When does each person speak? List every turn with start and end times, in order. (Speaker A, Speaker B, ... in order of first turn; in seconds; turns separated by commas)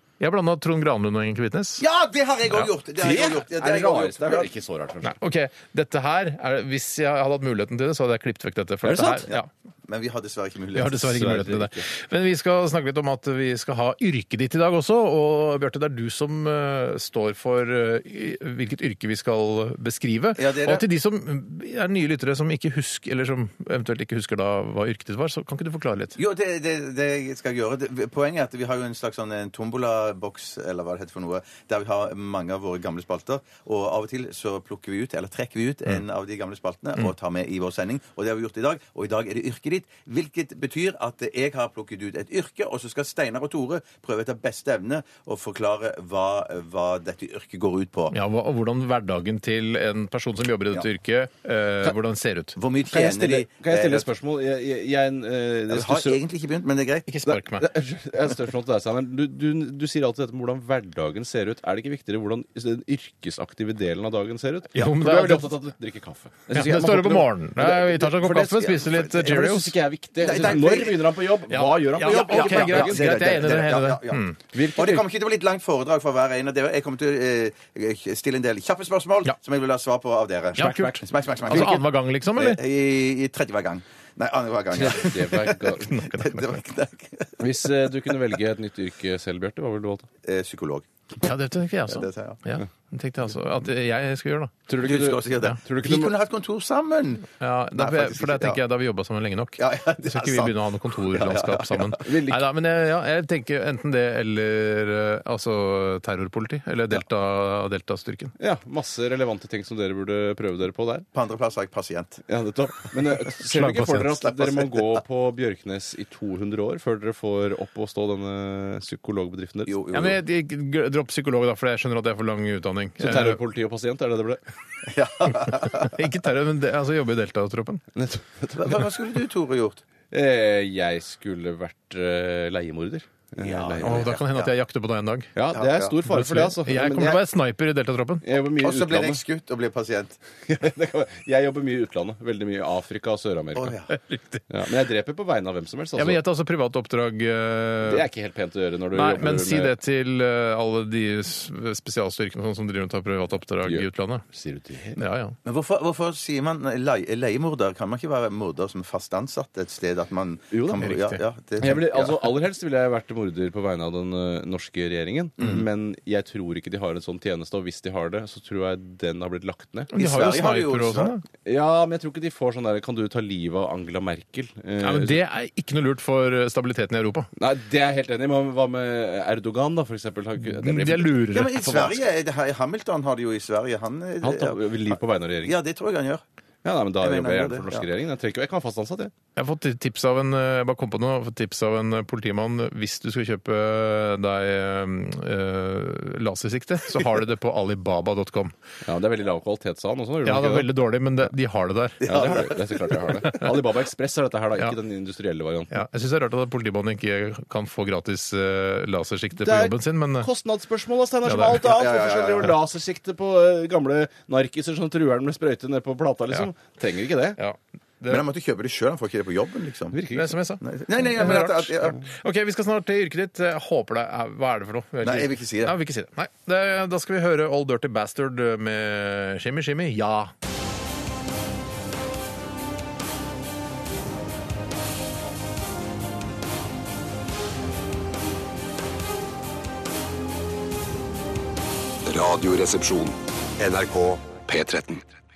Speaker A: 0.2-1.9, Speaker B: 1.8-4.5, Speaker C: 3.0-5.1, Speaker A: 5.0-9.5, Speaker C: 8.8-9.3, Speaker B: 9.3-11.3, Speaker A: 10.7-26.2, Speaker C: 11.0-11.9, Speaker B: 20.4-20.9, Speaker B: 26.2-48.1, Speaker A: 48.1-52.6, Speaker B: 52.6-54.1, Speaker C: 52.9-56.2, Speaker B: 55.7-57.4, Speaker A: 57.1-57.6, Speaker C: 57.6-73.5, Speaker A: 64.7-65.5, Speaker A: 66.5-69.7, Speaker B: 68.6-69.3, Speaker B: 70.2-71.1, Speaker A: 71.5-74.4, Speaker B: 72.0-74.2, Speaker C: 74.5-75.0, Speaker B: 74.8-87.5, Speaker C: 80.6-81.8, Speaker A: 80.6-82.6, Speaker C: 84.7-85.9, Speaker A: 85.9-86.6, Speaker C: 87.4-90.1, Speaker B: 90.2-90.9, Speaker A: 91.2-94.6, Speaker B: 91.9-92.4, Speaker C: 94.7-96.1, Speaker B: 94.8-98.6, Speaker A: 97.4-108.3, Speaker B: 99.6-102.0, Speaker C: 102.0-102.4, Speaker C: 108.4-111.1, Speaker B: 111.1-112.2, Speaker C: 112.3-119.8, Speaker A: 113.5-114.2, Speaker B: 114.3-114.8, Speaker B: 119.7-120.2, Speaker A: 119.9-123.4, Speaker C: 123.0-124.4, Speaker B: 124.8-126.0, Speaker A: 125.3-127.8, Speaker C: 127.9-128.9, Speaker B: 128.5-129.8, Speaker C: 130.1-134.1, Speaker B: 133.4-134.5, Speaker A: 133.8-135.3, Speaker C: 135.3-137.2, Speaker B: 135.5-135.9, Speaker A: 136.1-138.2, Speaker C: 138.2-139.2, Speaker B: 138.6-140.2, Speaker C: 140.4-143.8, Speaker B: 143.6-143.9, Speaker A: 143.9-144.4, Speaker C: 144.5-146.2, Speaker A: 146.0-148.1, Speaker C: 147.8-149.7, Speaker A: 148.9-154.2, Speaker C: 153.6-155.0, Speaker A: 154.9-155.4, Speaker B: 155.4-162.3, Speaker C: 160.5-160.8, Speaker A: 160.8-161.2, Speaker C: 161.6-169.9, Speaker B: 165.4-165.6, Speaker A: 169.9-171.2, Speaker B: 169.9-171.2, Speaker C: 171.4-175.2, Speaker A: 174.8-177.3, Speaker C: 177.4-181.2, Speaker A: 180.4-182.0, Speaker B: 181.3-186.2, Speaker C: 184.2-185.6, Speaker C: 186.6-189.1, Speaker B: 187.0-187.9, Speaker A: 189.4-198.6, Speaker C: 198.8-200.7, Speaker A: 200.2-202.1, Speaker B: 202.0-203.2, Speaker C: 202.1-205.8, Speaker A: 205.7-210.3, Speaker C: 209.4-217.4, Speaker A: 211.2-211.6, Speaker B: 211.6-212.6, Speaker A: 217.4-218.2, Speaker B: 218.1-220.0, Speaker C: 219.9-220.4, Speaker A: 220.1-230.3, Speaker B: 220.6-222.0, Speaker B: 225.0-225.8, Speaker D: 242.1-245.0